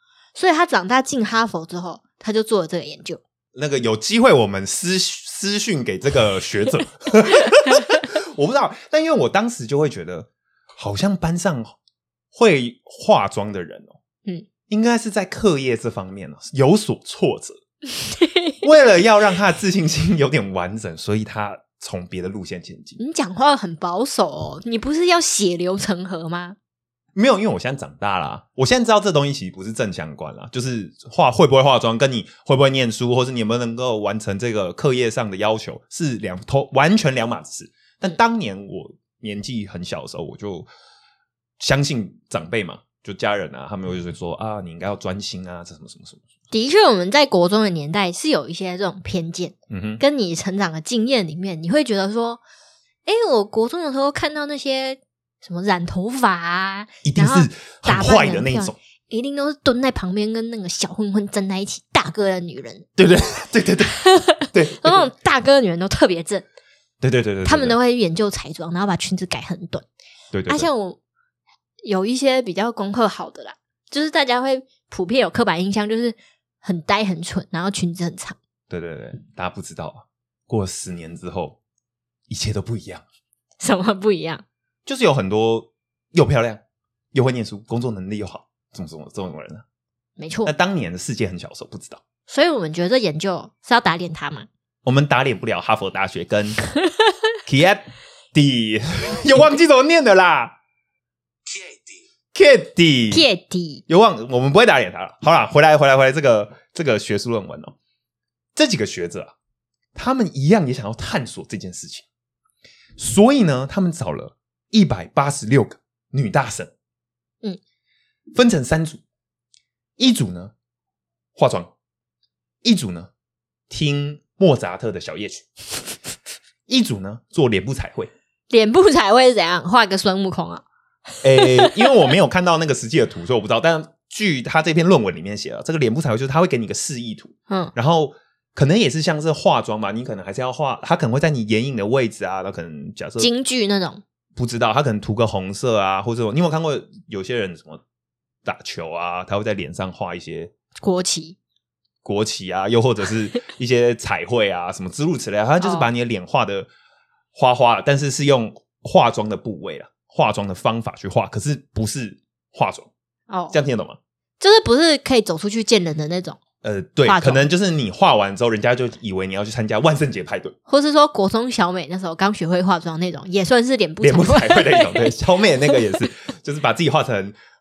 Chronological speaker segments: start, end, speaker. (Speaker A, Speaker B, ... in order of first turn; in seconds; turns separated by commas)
Speaker A: 0.4-3.2, Speaker B: 3.5-11.8, Speaker B: 12.3-14.0, Speaker B: 14.7-17.6, Speaker B: 18.6-23.0, Speaker A: 23.0-26.6, Speaker B: 27.1-40.7, Speaker B: 41.6-46.2, Speaker A: 46.5-52.4, Speaker B: 49.7-50.0, Speaker A: 53.1-62.9, Speaker B: 57.0-58.8, Speaker B: 63.0-64.0, Speaker A: 63.9-66.5, Speaker B: 64.5-65.1, Speaker B: 67.0-67.8, Speaker A: 67.5-69.9, Speaker B: 70.3-70.7, Speaker A: 70.5-71.0, Speaker A: 71.8-78.4, Speaker B: 78.7-81.6, Speaker B: 82.3-83.0, Speaker A: 83.6-84.4, Speaker B: 84.9-86.6, Speaker B: 87.1-89.6, Speaker A: 90.2-90.5, Speaker B: 90.5-92.0, Speaker A: 92.3-94.5, Speaker B: 94.8-96.6, Speaker B: 97.5-100.5, Speaker B: 102.3-103.3, Speaker A: 103.1-103.8, Speaker B: 103.9-107.8, Speaker B: 108.5-109.3, Speaker B: 110.0-112.1, Speaker B: 113.0-116.7, Speaker B: 118.3-119.0, Speaker B: 120.0-120.5, Speaker B: 121.4-121.7, Speaker B: 122.6-123.1, Speaker B: 123.7-125.5, Speaker B: 126.7-128.1, Speaker A: 128.5-130.6, Speaker B: 131.2-143.3, Speaker A: 131.3-131.8, Speaker A: 143.2-144.0, Speaker B: 144.4-147.8, Speaker B: 148.4-150.5, Speaker A: 150.8-151.4, Speaker B: 152.0-156.7, Speaker A: 155.6-155.9, Speaker B: 157.3-162.9, Speaker A: 163.3-163.6, Speaker B: 163.5-164.0, Speaker A: 164.4-166.4, Speaker B: 166.6-170.6, Speaker A: 167.1-167.5, Speaker A: 170.7-175.1, Speaker B: 174.0-177.4